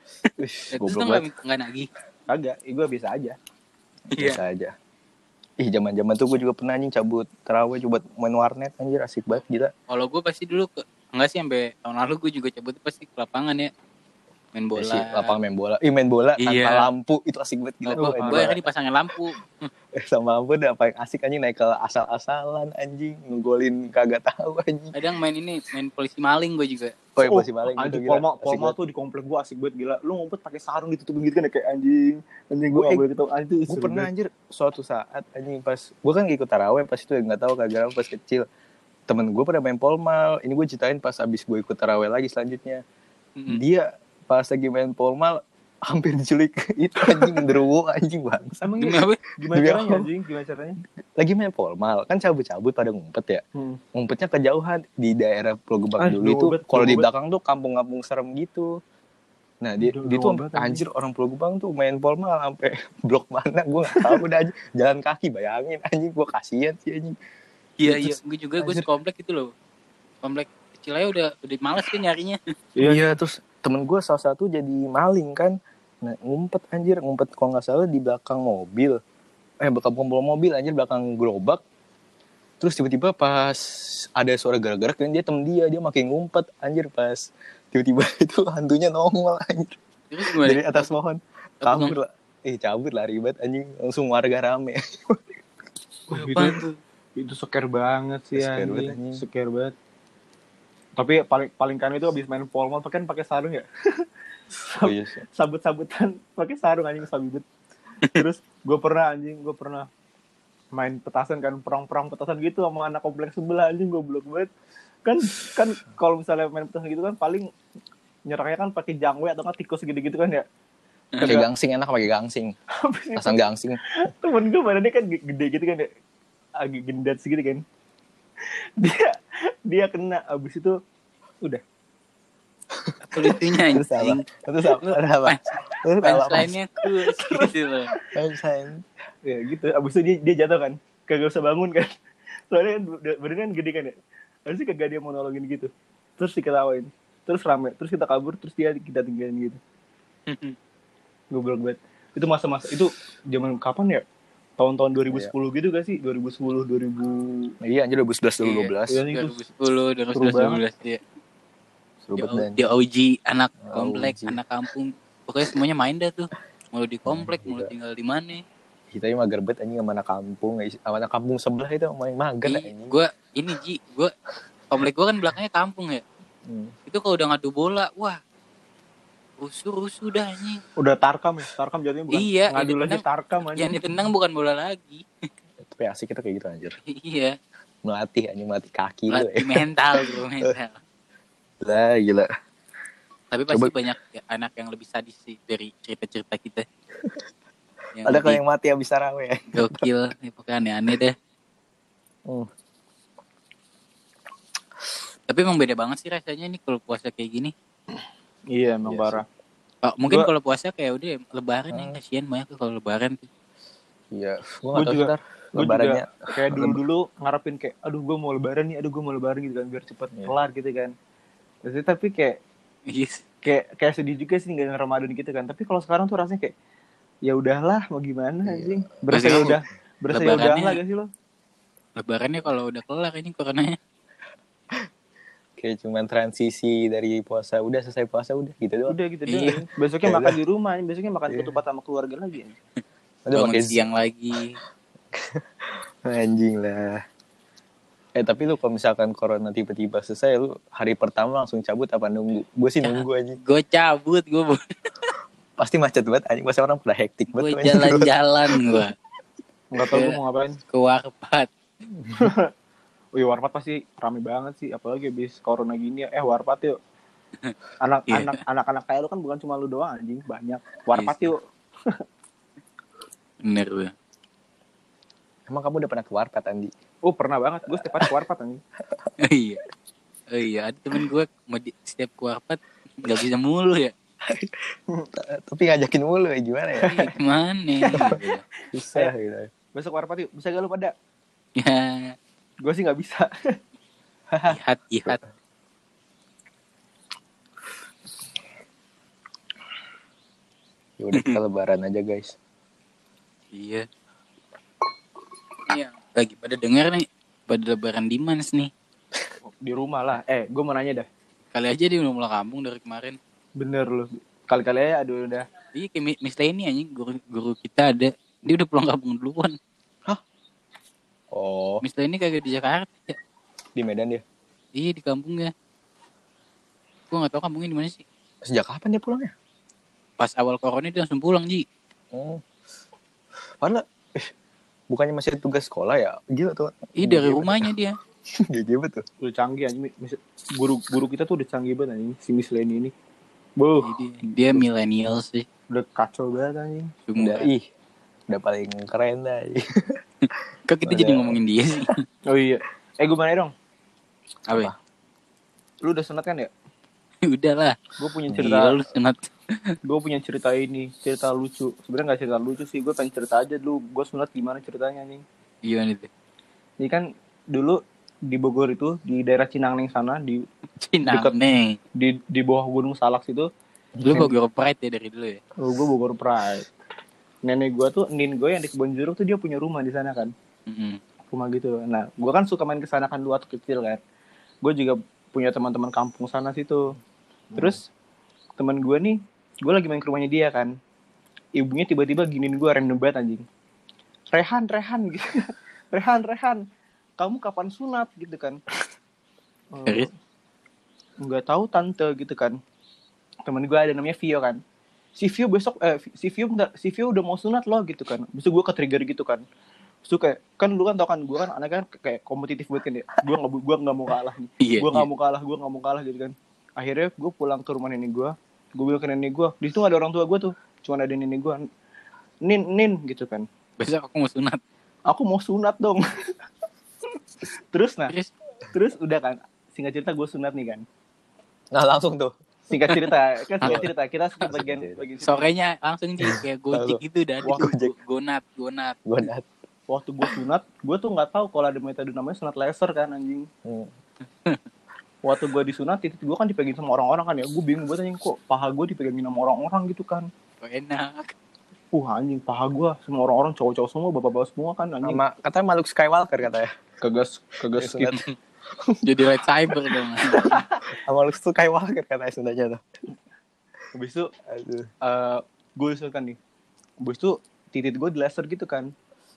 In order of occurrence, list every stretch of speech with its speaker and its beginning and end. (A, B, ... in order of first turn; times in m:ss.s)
0:00.4-0:01.3 A
0:00.7-0:01.9 B
0:02.3-0:03.4 C
0:04.1-0:04.7 A
0:04.1-0:04.4 B
0:05.6-0:09.7 A
0:09.9-0:13.7 B
0:14.5-0:15.3 B
0:14.8-0:18.6 A
0:16.4-0:16.9 B
0:17.8-0:19.7 B
0:18.0-0:18.5 C
0:19.9-0:25.0 A
0:24.9-0:27.0 B
0:27.2-0:28.7 A
0:27.2-0:34.1 C
0:32.7-0:33.0 A
0:33.7-0:38.4 A
0:39.1-0:42.8 A
0:43.4-0:43.6 B
0:43.5-0:48.7 A
0:47.2-0:47.4 C
0:48.6-0:50.8 C
0:48.8-0:49.2 B
0:49.5-0:50.1 A
0:51.2-0:53.4 A
0:53.6-0:53.8 C
0:53.9-0:58.8 A
0:56.0-0:57.1 C
0:59.6-1:07.2 A
0:59.8-1:00.8 C
1:07.8-1:09.5 B
1:07.8-1:08.8 A
1:10.2-1:12.4 B
1:12.8-1:13.2 C
1:12.8-1:19.0 A
1:19.6-1:21.6 A
1:22.6-1:35.2 A
1:30.1-1:30.9 B
1:31.6-1:32.0 B
1:36.1-1:36.6 C
1:36.1-1:36.8 B
1:37.2-1:39.7 C
1:38.3-1:39.2 A
1:41.0-1:44.0 C
1:44.6-1:47.4 C
1:44.8-1:45.2 A
1:48.0-1:49.9 C
1:50.7-1:54.5 C
1:55.0-1:57.5 C
1:58.3-2:00.4 C
2:01.2-2:01.4 C
2:01.2-2:02.5 A
2:02.8-2:05.9 C
2:03.2-2:03.8 A
2:06.6-2:07.6 C
2:08.8-2:10.8 C
2:12.7-2:16.5 A
2:13.0-2:15.4 B
2:16.0-2:17.9 B
2:17.2-2:18.0 C
2:18.1-2:18.9 A
2:19.2-2:21.9 C
2:22.5-2:23.9 C
2:24.5-2:29.6 C
2:30.3-2:30.6 B
2:31.3-2:34.0 C
2:34.6-2:37.5 C
2:37.6-2:39.0 A
2:38.4-2:41.0 B
2:38.9-2:39.4 C
2:40.1-2:40.6 C
2:42.0-2:42.6 A
2:42.2-2:48.4 B
2:43.6-2:44.4 A
2:47.0-2:47.7 A
2:48.9-2:53.0 A
2:52.4-2:54.1 B
2:54.7-2:56.0 B
2:56.4-2:56.7 A
2:56.9-2:58.2 B
2:59.4-3:00.6 B
3:00.8-3:03.7 C
3:02.1-3:03.0 B
3:03.5-3:05.0 B
3:05.6-3:06.8 A
3:06.9-3:07.4 B
3:07.8-3:10.5 A
3:09.1-3:10.8 B
3:11.6-3:12.3 A
3:13.3-3:16.6 B
3:13.5-3:13.8 A
3:17.9-3:18.4 B
3:18.0-3:19.9 A
3:19.5-3:21.1 B
3:25.3-3:27.5 B
3:28.5-3:29.2 C
3:28.8-3:29.2 A
3:29.8-3:33.3 B
3:31.7-3:32.0 A
3:34.1-3:36.8 A
3:34.7-3:40.9 C
3:41.6-3:42.4 C
3:42.9-3:43.2 B
3:43.4-3:46.5 C
3:47.2-3:51.1 C
3:48.4-3:49.4 A
3:49.1-3:49.6 B
3:50.1-3:50.8 B
3:52.0-3:53.8 B
3:55.6-3:59.0 A
3:58.9-4:02.6 C
3:59.3-3:59.6 B
4:00.0-4:00.4 A
4:01.3-4:01.6 A
4:03.2-4:04.4 A
4:03.3-4:04.6 B
4:05.1-4:07.0 A
4:08.2-4:13.4 A
4:12.8-4:15.1 B
4:15.6-4:18.9 A
4:17.3-4:18.9 B
4:19.7-4:20.6 C
4:19.9-4:20.2 B
4:20.7-4:21.5 B
4:22.1-4:22.5 C
4:23.2-4:26.8 C
4:27.8-4:32.0 C
4:28.1-4:28.4 B
4:30.9-4:31.3 B
4:33.4-4:33.9 B
4:35.5-4:36.7 A
4:37.0-4:38.6 C
4:37.8-4:38.1 A
4:39.2-4:39.6 B
4:40.3-4:43.9 B
4:44.2-4:47.1 A
4:46.8-4:48.4 B
4:47.8-4:48.2 C
4:47.9-4:48.2 A
4:48.7-4:49.5 A
4:49.7-4:50.9 C
4:51.6-4:52.2 B
4:52.6-4:53.3 C
4:54.3-4:55.2 A
4:54.5-4:55.2 B
5:01.0-5:02.4 A
5:03.5-5:03.8 B
5:05.7-5:08.7 B
5:09.6-5:11.1 C
5:11.5-5:13.2 B
5:13.6-5:15.4 C
5:15.7-5:19.6 B
5:21.3-5:21.8 A
5:21.8-5:23.2 B
5:23.8-5:24.2 A
5:24.7-5:25.5 B
5:27.1-5:28.0 B
5:28.4-5:29.3 A
5:30.2-5:31.6 B
5:32.1-5:32.4 A
5:33.6-5:34.3 A
5:34.9-5:37.7 A
5:37.0-5:38.0 B
5:38.3-5:39.0 A
5:39.2-5:42.9 C
5:43.6-5:43.9 C
5:43.8-5:45.4 B
5:45.7-5:46.9 C
5:47.1-5:47.5 B
5:47.2-5:47.7 A
5:48.3-5:50.0 A
5:50.7-5:52.0 B
5:50.8-5:51.4 A
5:52.3-5:53.5 C
5:55.8-5:56.5 C
5:57.2-5:57.8 B
5:58.0-5:58.8 C
5:58.3-5:59.8 B
5:59.8-6:05.2 C
6:05.6-6:06.1 B
6:06.8-6:10.4 C
6:10.8-6:11.8 B
6:11.0-6:11.4 C
6:12.0-6:13.5 C
6:14.0-6:14.3 A
6:14.0-6:15.4 B
6:15.6-6:16.7 C
6:17.4-6:20.3 C
6:20.7-6:21.0 B
6:21.3-6:24.0 C
6:24.6-6:26.9 C
6:27.5-6:27.8 C
6:28.6-6:30.7 C
6:31.6-6:33.4 C
6:34.3-6:36.6 C
6:37.2-6:38.6 C
6:39.7-6:40.1 C
6:41.2-6:42.6 C
6:43.4-6:44.6 C
6:45.2-6:49.4 C
6:50.0-7:01.6 C
6:54.6-6:55.1 B
7:02.4-7:03.4 C
7:03.8-7:04.6 B
7:05.1-7:06.0 C
7:07.5-7:08.1 C
7:08.7-7:10.8 C
7:11.7-7:12.3 A
7:12.7-7:15.4 C
7:13.6-7:13.9 A
7:14.5-7:15.0 A
7:15.2-7:19.0 B
7:16.2-7:17.9 A
7:17.4-7:17.7 C
7:19.0-7:19.5 A
7:19.9-7:23.5 C
7:23.6-7:23.9 A
7:25.2-7:30.3 C
7:30.6-7:31.3 B
7:31.9-7:35.2 C
7:35.0-7:36.7 A
7:37.0-7:38.2 C
7:37.7-7:38.2 A
7:38.8-7:39.3 A
7:39.0-7:40.6 B
7:40.3-7:42.8 A
7:40.3-7:40.8 C
7:43.9-7:44.3 C
7:44.5-7:44.9 A
7:45.0-7:46.4 C
7:47.0-7:48.9 C